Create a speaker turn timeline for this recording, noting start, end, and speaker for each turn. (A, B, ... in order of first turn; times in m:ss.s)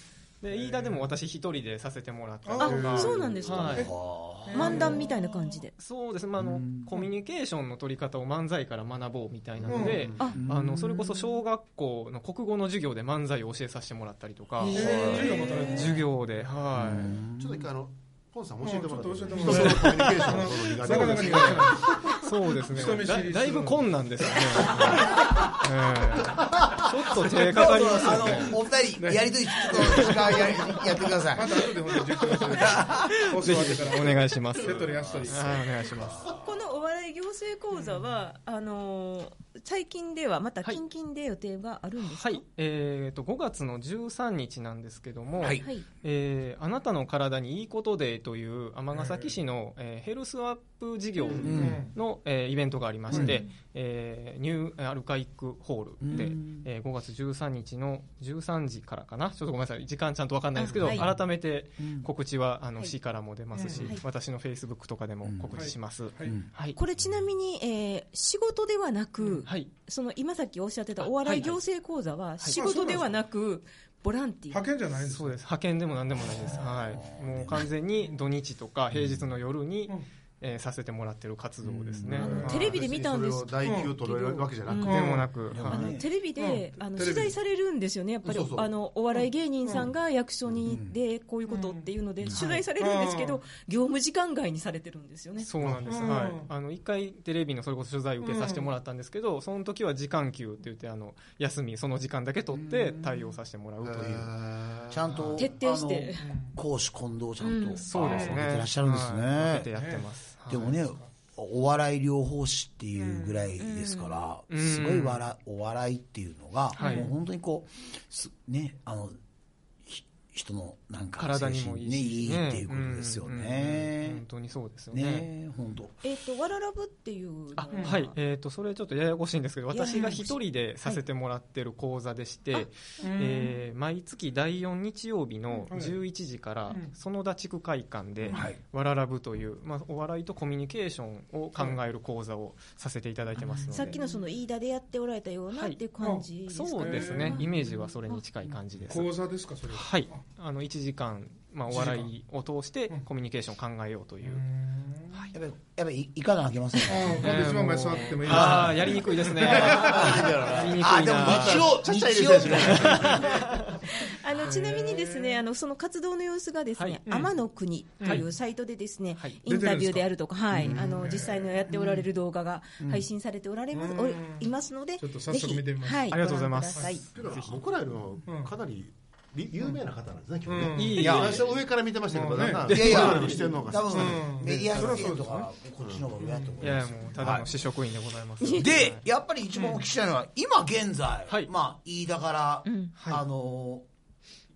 0:00.4-0:03.9 A
0:00.5-0:01.0 B
0:02.4-0:03.9 B
0:02.6-0:03.9 C
0:03.3-0:04.9 D
0:04.4-0:05.1 B
0:04.5-0:05.7 C
0:05.8-0:17.1 A
0:06.4-0:06.9 D
0:09.6-0:10.3 E
0:09.7-0:10.1 B
0:10.2-0:10.4 C
0:10.3-0:11.0 D
0:14.6-0:15.6 D
0:14.7-0:16.1 B
0:15.5-0:15.8 C
0:16.7-0:17.6 D
0:16.8-0:22.1 E
0:18.6-0:23.9 B
0:19.4-0:28.6 A
0:24.6-0:25.5 D
0:26.5-0:31.7 D
0:28.3-0:30.6 B
0:29.7-0:30.2 A
0:31.3-0:35.7 B
0:32.2-0:36.2 A
0:32.5-0:33.2 D
0:34.7-0:36.4 D
0:36.2-0:42.4 C
0:42.0-1:06.8 A
0:45.4-0:45.7 D
0:48.9-0:49.3 B
0:51.3-0:51.7 E
0:51.4-0:51.8 D
0:51.5-0:51.9 B
0:53.1-0:53.4 B
0:53.1-0:53.4 D
0:56.0-0:56.7 D
1:00.6-1:01.1 C
1:00.8-1:01.2 D
1:01.8-1:02.1 D
1:03.5-1:04.0 B
1:03.7-1:04.0 C
1:05.2-1:05.5 D
1:05.5-1:06.5 B
1:06.2-1:06.5 D
1:06.7-1:14.6 C
1:11.0-1:11.6 A
1:12.5-1:13.2 B
1:14.5-1:15.4 B
1:15.0-1:22.8 A
1:16.4-1:17.7 D
1:18.9-1:19.3 D
1:21.6-1:22.5 D
1:22.2-1:25.1 C
1:22.2-1:22.7 B
1:22.3-1:25.2 E
1:23.6-1:24.0 B
1:24.8-1:25.9 A
1:24.8-1:25.3 B
1:25.5-1:26.0 D
1:25.7-1:35.5 C
1:26.4-1:27.4 B
1:28.2-1:28.7 E
1:29.6-1:29.9 B
1:30.5-1:31.0 D
1:31.5-1:31.9 B
1:32.2-1:32.6 D
1:32.8-1:33.4 B
1:35.4-1:44.3 A
1:35.6-1:36.0 E
1:35.9-1:36.5 B
1:38.2-1:38.7 B
1:42.5-1:43.2 D
1:43.8-1:45.3 E
1:44.9-1:49.7 D
1:45.4-1:46.3 C
1:46.2-1:46.5 B
1:47.4-1:47.8 C
1:47.8-1:50.8 A
1:48.0-1:48.3 E
1:48.0-1:48.4 B
1:49.7-1:50.0 B
1:50.5-1:59.2 D
1:53.0-1:53.4 B
1:53.6-1:54.2 C
1:54.5-1:55.2 A
1:56.7-1:57.1 A
1:56.8-1:57.1 C
1:59.8-2:04.2 D
2:01.2-2:05.3 A
2:04.9-2:06.0 D
2:06.0-2:08.1 C
2:07.6-2:24.0 A
2:07.7-2:08.0 B
2:09.7-2:11.0 C
2:13.0-2:13.5 B
2:15.7-2:16.0 B
2:18.3-2:18.6 D
2:23.7-2:27.5 C
2:25.5-2:25.8 A
2:26.5-2:29.1 A
2:26.8-2:27.4 B
2:28.9-2:30.2 B
2:29.7-2:34.4 A
2:31.7-2:32.1 B
2:34.2-2:35.2 B
2:35.3-2:37.5 D
2:36.9-2:40.1 B
2:37.1-2:41.7 A
2:38.2-2:43.4 D
2:39.7-2:43.5 E
2:42.5-2:43.8 A
2:43.8-2:57.0 C
2:44.4-2:45.4 B
2:47.0-2:47.3 B
2:49.4-2:50.1 B
2:50.5-2:51.2 D
2:50.6-2:52.0 B
2:52.8-2:53.0 D
2:53.7-2:56.2 B
2:56.1-2:57.6 A
2:56.7-2:57.0 B
2:57.1-3:04.4 E
2:58.2-2:58.5 B
3:00.4-3:01.0 B
3:00.7-3:01.5 A
3:01.0-3:01.5 D
3:02.1-3:03.4 B
3:02.7-3:07.5 D
3:03.9-3:05.5 B
3:04.7-3:05.2 A
3:05.8-3:06.1 E
3:06.3-3:06.5 B
3:06.6-3:09.0 A
3:08.4-3:13.8 D
3:12.6-3:12.9 C
3:13.0-3:13.2 A